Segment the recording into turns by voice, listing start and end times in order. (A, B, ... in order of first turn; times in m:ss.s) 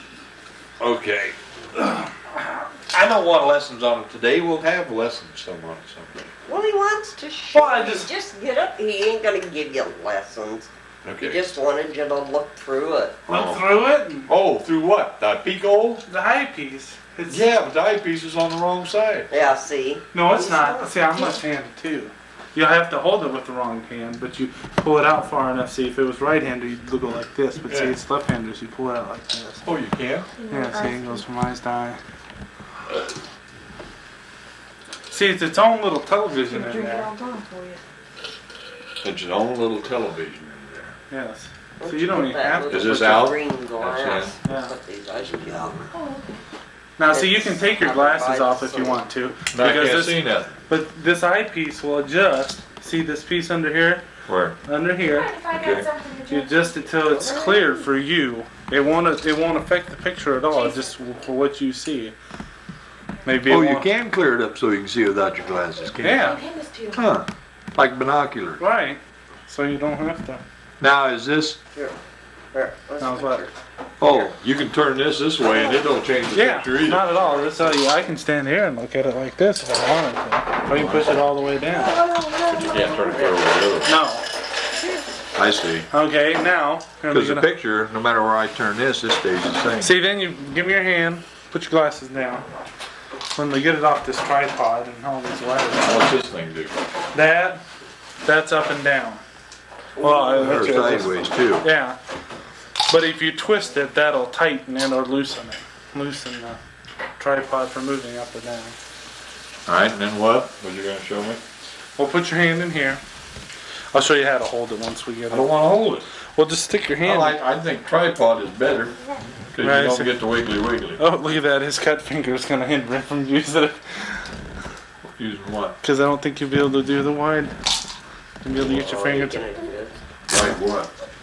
0:00.8-0:02.1 A
0:02.8-0:06.3 A
0:06.4-0:13.2 B
0:07.5-0:08.1 C
0:11.0-0:11.4 A
0:13.3-0:13.6 A
0:13.3-0:14.3 C
0:14.3-0:16.0 A
0:16.0-0:17.4 C
0:17.3-0:19.3 A
0:19.3-0:21.3 B
0:20.1-0:29.6 C
0:27.7-0:28.0 A
0:29.6-0:30.3 A
0:30.4-0:31.2 D
0:30.5-0:32.0 C
0:35.1-0:37.1 C
0:36.4-0:37.8 D
0:39.0-0:40.9 A
0:41.1-0:42.8 C
0:41.8-0:45.9 B
0:42.6-0:44.4 A
0:44.4-0:44.7 C
0:45.2-0:45.8 A
0:45.9-0:46.4 D
0:47.0-0:54.0 C
0:47.1-0:49.0 B
0:49.5-0:50.5 A
0:54.2-0:54.6 A
0:54.6-0:55.3 C
0:55.0-0:56.7 D
0:55.5-0:55.9 A
0:56.3-1:02.1 C
0:56.9-0:57.9 B
1:00.5-1:00.9 D
1:03.2-1:03.9 C
1:03.4-1:06.3 A
1:06.0-1:06.4 C
1:06.1-1:07.0 D
1:06.9-1:08.6 A
1:08.6-1:10.4 C
1:10.8-1:11.6 A
1:11.7-1:12.0 B
1:12.5-1:13.5 B
1:13.0-1:13.5 C
1:14.0-1:17.2 A
1:15.5-1:15.8 B
1:16.3-1:22.0 C
1:17.2-1:18.0 B
1:20.7-1:21.2 A
1:21.8-1:23.0 D
1:22.5-1:23.9 A
1:22.7-1:23.4 B
1:23.8-1:24.2 C
1:25.3-1:25.9 A
1:25.9-1:27.5 C
1:27.1-1:30.0 A
1:29.8-1:32.4 C
1:33.3-1:36.1 C
1:35.8-1:36.7 A
1:37.1-1:37.6 C
1:38.2-1:39.2 C
1:40.0-1:41.2 B
1:40.0-1:42.0 C
1:40.4-1:41.7 A
1:42.9-1:46.6 C
1:47.2-1:48.7 C
1:49.6-1:51.4 A
1:52.0-1:53.0 C
1:53.9-1:55.5 C
1:55.3-1:56.0 A
1:56.3-1:57.4 C
1:57.0-1:59.0 A
1:59.5-2:01.0 A
1:59.6-2:00.1 C
2:01.0-2:04.2 C
2:05.0-2:05.8 A
2:05.8-2:07.6 C
2:08.4-2:09.4 C
2:08.6-2:10.0 B
2:10.3-2:10.9 A